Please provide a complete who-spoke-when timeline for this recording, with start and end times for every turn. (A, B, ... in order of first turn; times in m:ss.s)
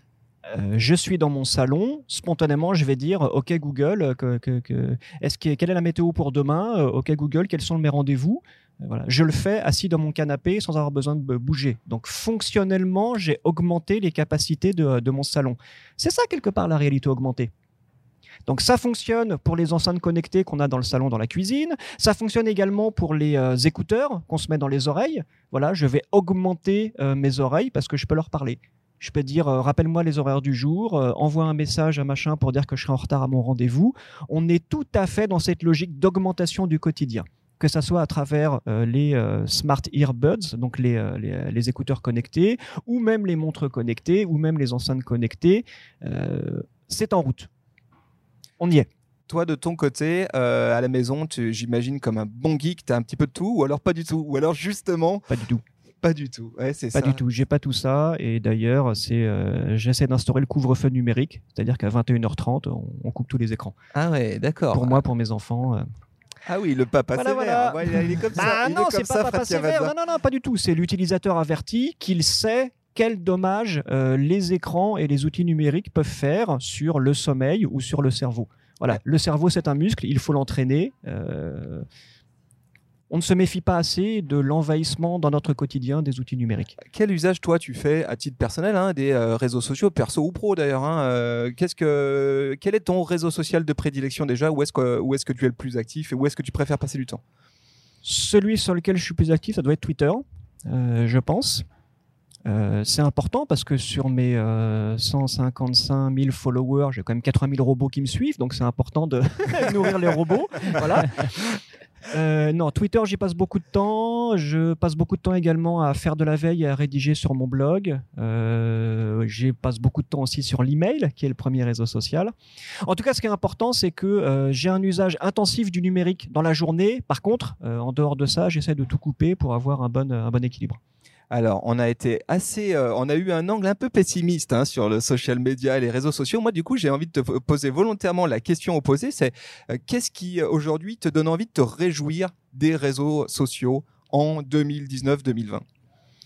0:00.5-0:17.5 A
0:18.5-0:47.5 A
0:48.6-0:48.9 A
0:49.3-0:55.3 B
0:55.3-0:55.6 A
0:56.0-0:57.2 B
0:56.9-1:03.7 A
1:03.9-1:05.0 B
1:04.7-1:05.8 A
1:06.4-1:09.9 B
1:07.1-1:21.8 A
1:23.1-1:26.8 A
1:26.8-1:37.2 B
1:38.0-1:41.6 A
1:42.4-2:02.3 A
2:02.8-2:10.8 A
2:11.3-2:25.6 B